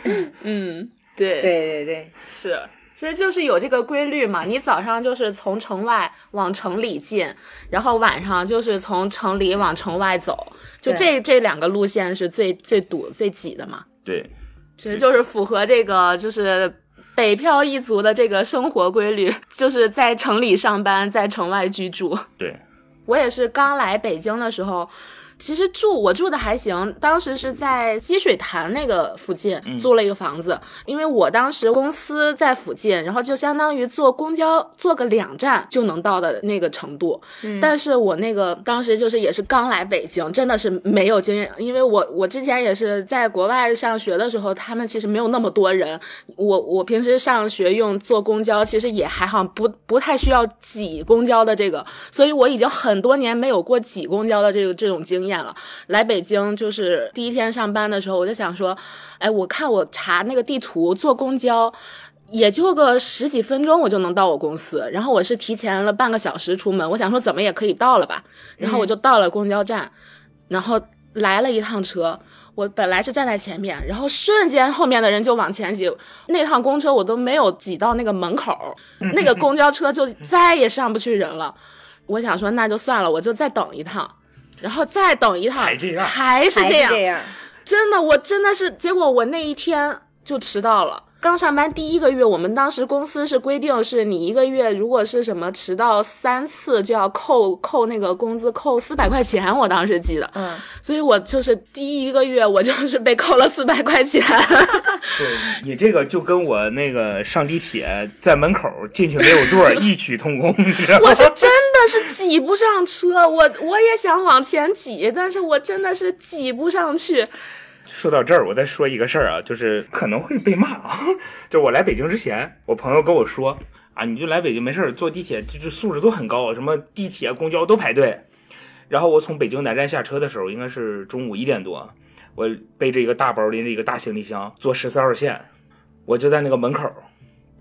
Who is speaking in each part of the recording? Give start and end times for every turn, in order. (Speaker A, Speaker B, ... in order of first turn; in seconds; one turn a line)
Speaker A: 0.3-1.5
Speaker B: 1.4-2.1
Speaker A: 2.2-13.8
Speaker C: 14.0-14.3
Speaker A: 14.8-22.3
Speaker A: 23.1-61.7
Speaker B: 37.4-37.7
Speaker A: 62.3-69.9
Speaker B: 68.6-68.9
Speaker A: 70.5-81.5
Speaker A: 82.1-87.0
Speaker C: 85.5-86.2
Speaker B: 86.5-87.3
Speaker A: 87.6-105.2
Speaker B: 100.3-100.6
Speaker C: 105.1-111.4
Speaker A: 110.9-117.3
Speaker C: 117.9-128.2
Speaker C: 128.9-135.5
Speaker C: 136.1-137.0